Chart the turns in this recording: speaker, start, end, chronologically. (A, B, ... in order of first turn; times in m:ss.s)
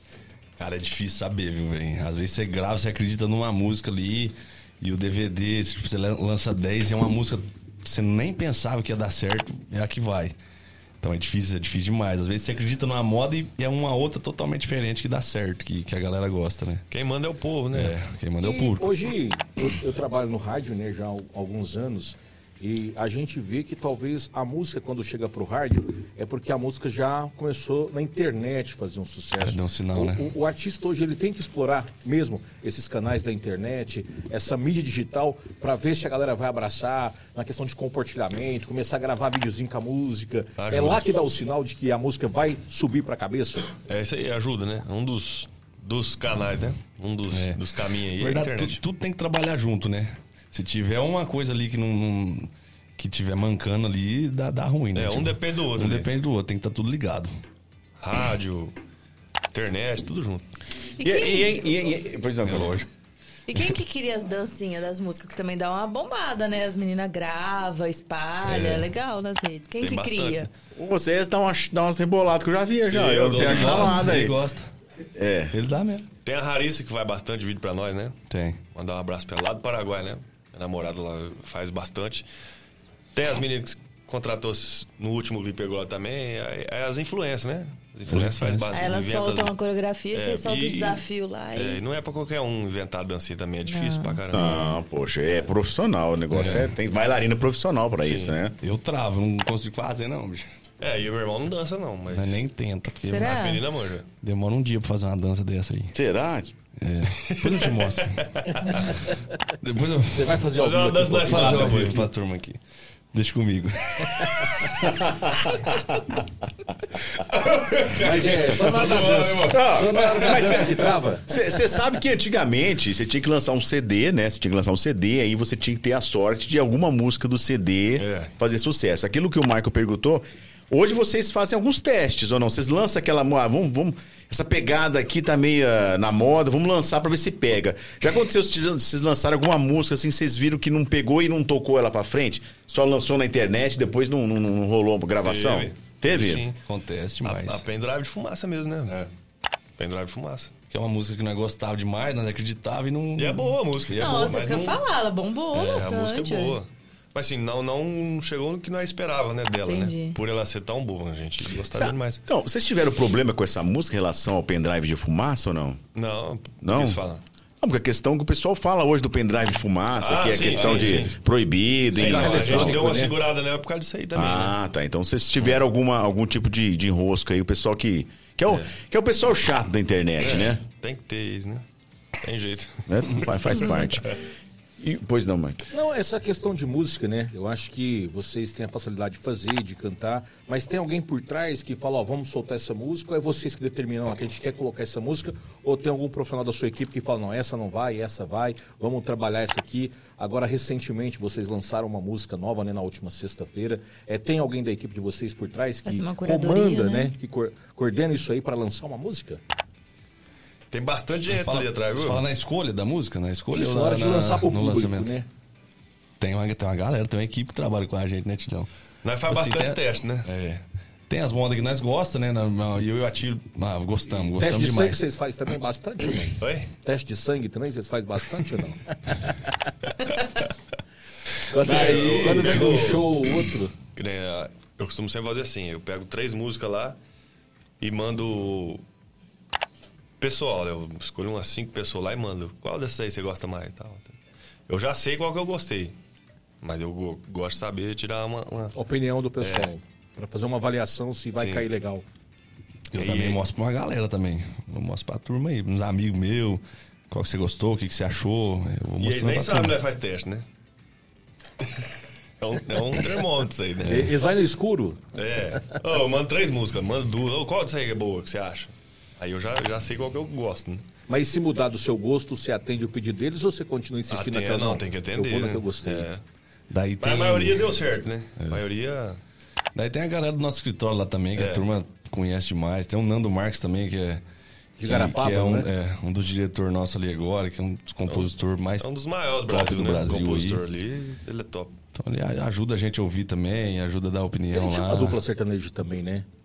0:00.6-0:10.4 A
0:11.0-0:16.8 A
0:16.9-0:18.0 B
0:17.7-0:18.9 A
0:18.4-0:43.7 C
0:29.4-0:30.3 A
0:40.6-0:41.1 B
0:43.9-0:48.8 B
0:47.3-0:47.6 A
0:48.2-0:57.3 A
0:54.9-0:56.1 B
0:58.0-0:58.8 B
0:59.5-1:00.4 B
1:01.0-1:01.6 D
1:01.0-1:02.8 E
1:02.4-1:02.9 A
1:03.5-1:10.5 D
1:08.5-1:08.9 A
1:09.8-1:10.5 B
1:10.8-1:14.4 E
1:12.9-1:14.1 B
1:13.3-1:14.7 A
1:15.2-1:15.6 E
1:15.5-1:16.1 A
1:16.2-1:18.2 B
1:18.3-1:18.6 A
1:18.8-1:22.3 B
1:23.2-1:29.5 B
1:28.1-1:28.8 A
1:28.7-1:31.8 D
1:30.1-1:31.0 B
1:31.6-1:34.5 B
1:33.6-1:34.8 D
1:34.3-1:38.6 E
1:36.3-1:36.7 A
1:38.0-1:38.4 B
1:38.6-1:40.5 A
1:40.8-1:42.4 B
1:42.1-1:43.4 A
1:43.0-1:43.6 D
1:43.2-1:44.1 B
1:44.2-1:46.0 A
1:46.0-1:46.5 E
1:46.8-1:48.2 A
1:47.2-1:48.8 B
1:49.6-1:50.4 A
1:50.1-1:52.1 C
1:50.5-1:52.0 B
1:51.3-1:52.6 A
1:53.1-1:54.2 A
1:57.3-2:00.7 A
1:58.0-2:01.4 C
1:59.5-2:00.7 E
2:01.3-2:26.4 E
2:08.0-2:08.3 B
2:25.2-2:26.6 B
2:26.7-2:27.6 A
2:27.2-2:29.0 B
2:29.8-2:30.5 B
2:30.7-2:34.5 A
2:33.2-2:34.8 B
2:33.9-2:36.6 D
2:35.5-2:42.2 B
2:39.7-2:40.2 D
2:41.7-2:45.8 E
2:46.0-2:47.2 B
2:46.6-2:47.0 E
2:47.6-2:53.0 E
2:50.0-2:51.2 B
2:50.4-2:51.0 C
2:51.9-2:53.2 C
2:51.9-2:54.6 B
2:54.2-3:00.6 E
2:58.5-2:58.7 B
3:00.2-3:01.6 B
3:02.2-3:03.7 B
3:02.9-3:04.2 E
3:04.8-3:05.6 E
3:05.7-3:29.4 C
3:25.8-3:27.1 D
3:30.7-3:32.2 B
3:31.3-3:35.1 A
3:33.5-3:35.3 C
3:36.2-3:38.7 A
3:39.0-3:40.3 B
3:39.3-3:45.0 A
3:44.3-3:49.3 C
3:46.4-3:46.7 B
3:51.5-3:53.7 C
3:51.6-3:53.2 B
3:51.6-3:52.8 A
3:54.0-3:57.0 B
3:57.8-3:58.8 B
4:00.2-4:04.2 B
4:04.7-4:06.0 B
4:06.6-4:08.8 B
4:08.8-4:12.0 C
4:09.4-4:09.7 B
4:11.4-4:11.7 B
4:12.9-4:19.8 A
4:13.0-4:13.4 B
4:19.0-4:20.4 B
4:22.4-4:24.1 B
4:23.8-4:25.0 C
4:25.2-4:30.8 B
4:31.1-4:36.1 C
4:34.1-4:36.2 B
4:36.7-4:37.7 A
4:37.0-4:39.2 B
4:39.8-4:44.2 A
4:41.4-4:41.7 B
4:44.8-4:45.7 C
4:44.8-4:48.9 A
4:48.1-4:51.8 B
4:49.5-4:50.6 A
4:52.0-4:55.2 A
4:54.5-4:56.3 C